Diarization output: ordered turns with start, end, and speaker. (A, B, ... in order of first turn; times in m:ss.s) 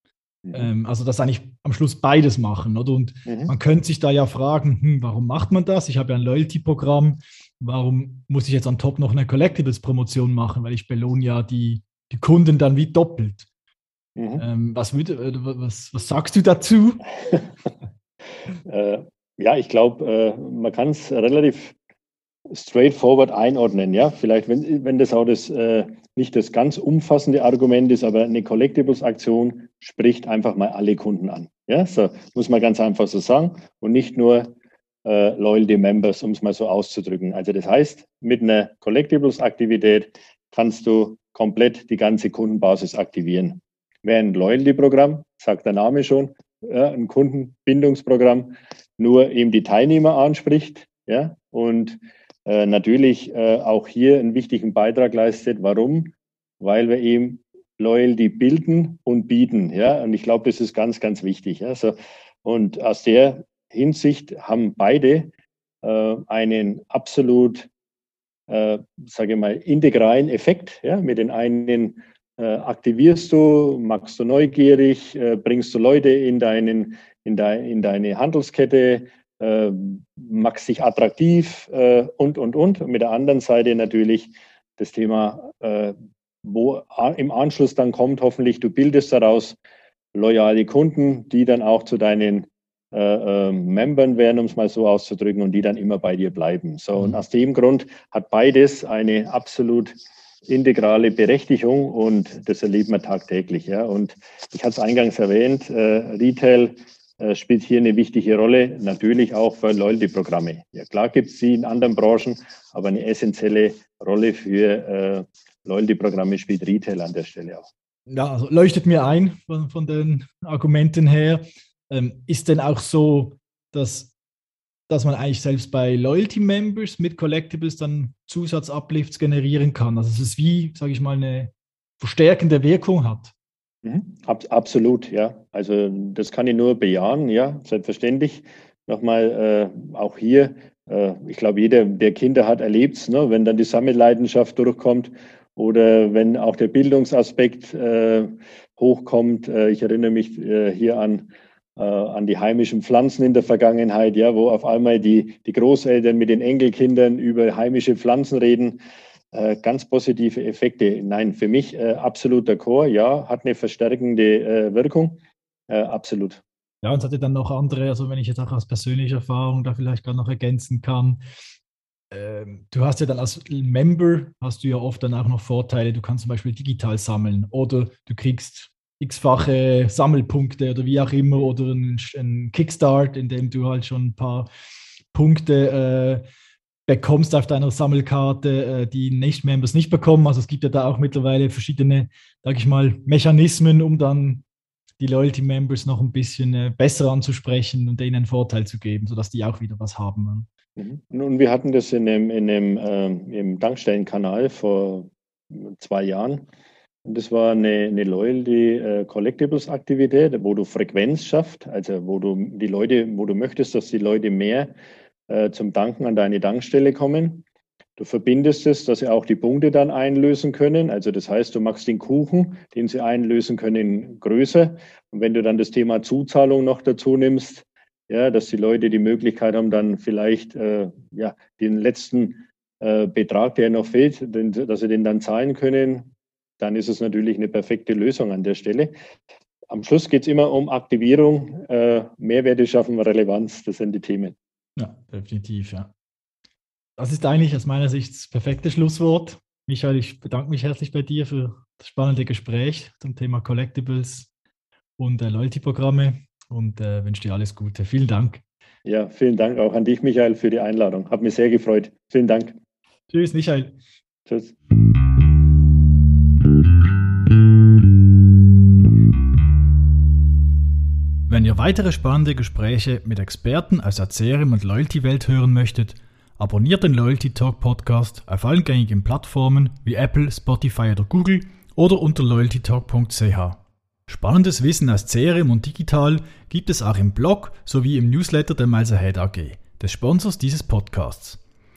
0:00.4-0:00.7 A
0:00.5-0:13.5 B
0:03.2-0:03.5 A
0:14.2-0:14.4 A
0:14.4-0:17.0 B
0:18.6-0:21.7 A
0:22.5-0:34.5 A
0:35.0-1:07.7 A
1:08.5-1:29.6 A
1:30.1-1:39.9 A
1:40.5-1:57.7 A
1:58.1-2:04.1 B
2:04.9-2:13.3 B
2:13.8-2:38.8 A
2:39.3-2:46.4 A
2:46.8-2:51.2 B
2:52.1-3:04.5 B
3:05.1-3:06.2 B
3:06.9-3:14.4 B
3:15.0-3:20.5 B
3:20.8-3:26.5 A
3:27.0-3:34.7 A
3:35.3-3:37.4 A
3:38.0-3:58.9 A
3:59.7-4:04.4 A
4:04.8-4:05.9 B
4:07.0-4:14.3 B
4:15.0-4:18.4 B
4:18.8-4:22.6 A
4:23.1-4:23.8 B
4:24.3-4:24.5 A
4:31.3-4:51.4 B